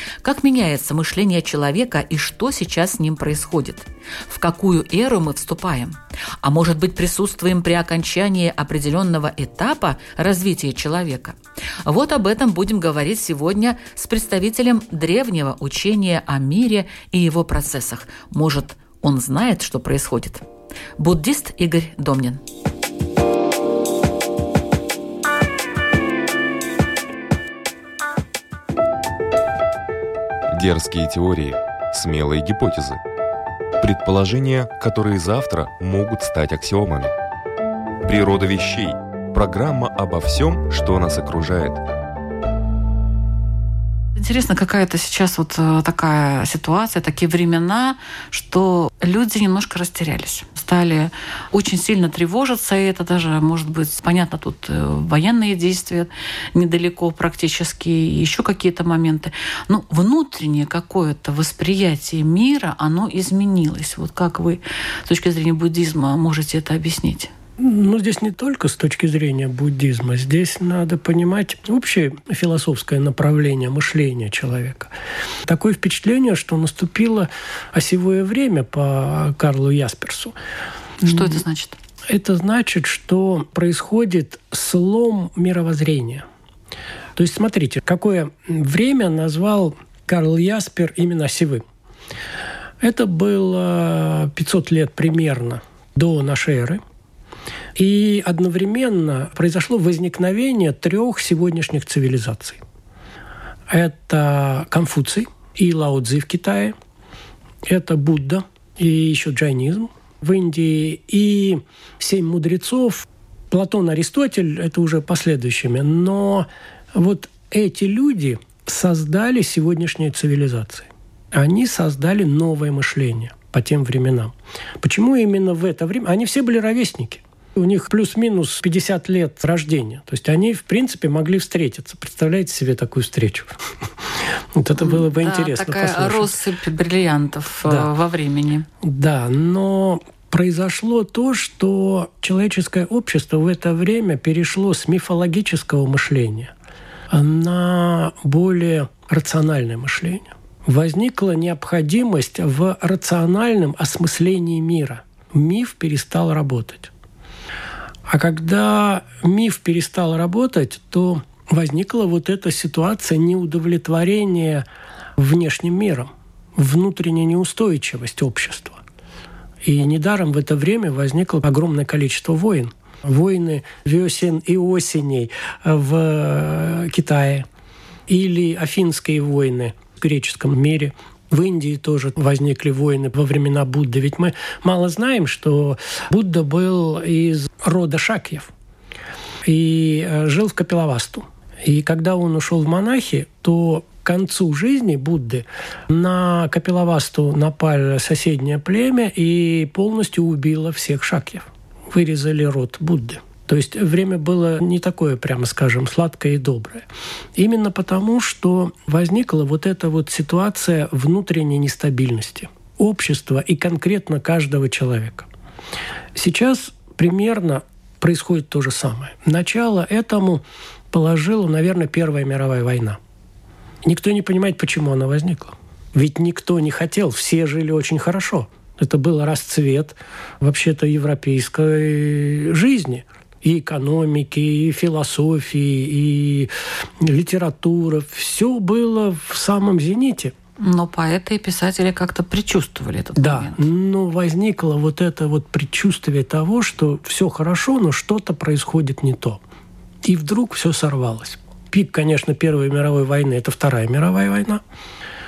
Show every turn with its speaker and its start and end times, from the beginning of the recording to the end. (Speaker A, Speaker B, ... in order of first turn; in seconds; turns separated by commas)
Speaker A: 0.2-20.4, Speaker A: 21.0-22.4, Speaker B: 30.5-33.0, Speaker B: 33.8-37.1, Speaker B: 38.0-41.8, Speaker A: 44.1-67.3, Speaker C: 67.6-74.9, Speaker C: 75.5-80.3, Speaker A: 81.0-81.8, Speaker C: 81.0-81.4, Speaker C: 82.1-86.2, Speaker C: 87.2-91.6, Speaker C: 92.8-96.8, Speaker C: 97.8-102.6, Speaker C: 103.7-106.8, Speaker C: 107.7-133.6, Speaker C: 134.2-136.4, Speaker A: 134.8-138.7, Speaker C: 138.8-146.5, Speaker C: 147.1-156.9, Speaker C: 158.1-164.7, Speaker C: 165.2-168.8, Speaker C: 169.6-177.5, Speaker C: 178.1-188.5, Speaker C: 189.4-215.3, Speaker C: 216.1-223.0, Speaker C: 223.8-240.3, Speaker A: 240.6-243.6, Speaker C: 243.2-249.4, Speaker C: 250.0-254.6